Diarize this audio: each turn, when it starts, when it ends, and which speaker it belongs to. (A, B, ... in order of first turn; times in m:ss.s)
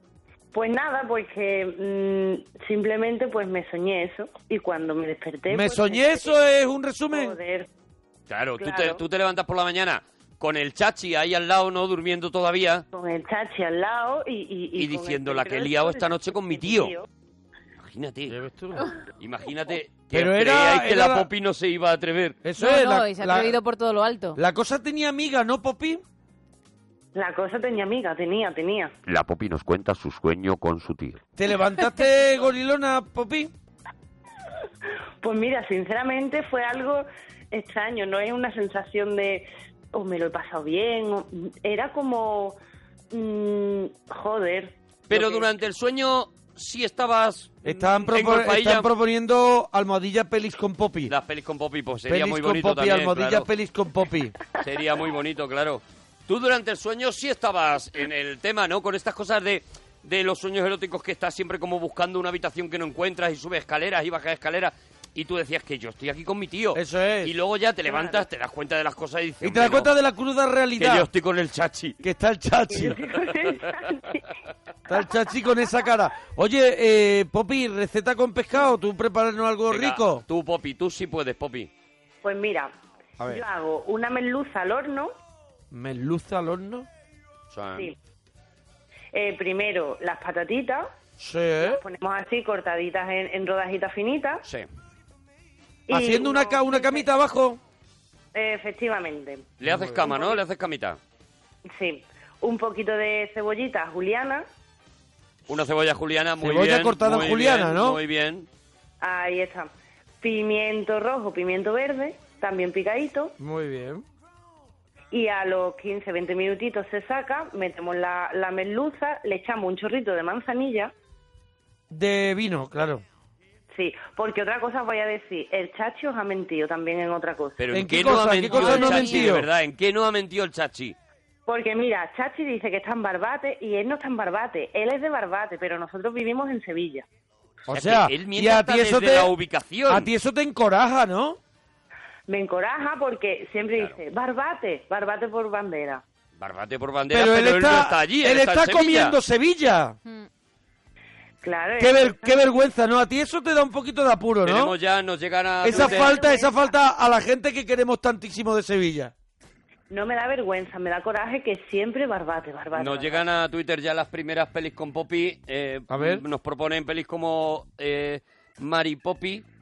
0:00.5-0:06.3 A
0:05.5-0:07.4 B
0:07.1-0:07.7 A
0:08.3-0:12.8 C
0:08.6-0:09.0 A
0:12.9-0:17.1 A
0:14.8-0:16.9 C
0:17.8-0:18.4 C
0:18.3-0:18.9 B
0:19.2-0:22.4 C
0:20.1-0:21.3 B
0:22.4-0:23.6 B
0:22.6-0:24.4 D
0:24.4-0:26.0 B
0:27.1-0:28.9 A
0:29.1-0:31.2 E
0:31.4-0:33.5 B
0:35.2-0:42.6 A
0:43.1-0:45.5 A
0:45.1-0:48.9 C
0:47.6-0:51.1 B
0:51.1-0:53.5 C
0:52.1-0:54.4 B
0:54.6-1:09.9 C
1:06.7-1:07.3 B
1:07.9-1:08.2 A
1:09.4-1:11.1 B
1:10.8-1:12.0 C
1:12.0-1:13.0 B
1:12.7-1:14.3 A
1:14.9-1:20.2 B
1:19.7-1:21.7 C
1:22.2-1:22.7 A
1:23.2-1:25.1 A
1:25.7-1:26.9 B
1:27.5-1:27.9 C
1:29.1-1:30.9 A
1:31.2-1:31.8 B
1:31.6-1:34.4 A
1:35.9-1:37.1 A
1:35.9-1:37.6 B
1:38.3-1:39.5 A
1:39.6-1:41.0 C
1:39.7-1:40.0 B
1:40.0-1:40.4 A
1:41.7-1:44.5 A
1:45.5-1:48.5 C
1:46.4-1:48.0 B
1:49.0-1:49.7 A
1:50.2-1:53.3 A
1:53.4-1:54.0 B
1:55.1-2:00.9 A
2:01.9-2:03.0 B
2:03.7-2:07.6 A
2:07.6-2:11.0 C
2:07.7-2:09.5 B
2:08.5-2:09.3 D
2:11.5-2:17.0 A
2:17.7-2:19.3 B
2:17.7-2:20.1 C
2:19.9-2:21.4 B
2:22.3-2:26.0 A
2:26.4-2:29.2 C
2:27.1-2:30.0 B
2:31.4-2:32.3 A
2:31.8-2:34.7 B
2:34.4-2:36.2 C
2:35.6-2:39.1 B
2:35.7-2:36.7 A
2:39.9-2:43.2 A
2:42.7-2:49.4 C
2:45.9-2:46.2 B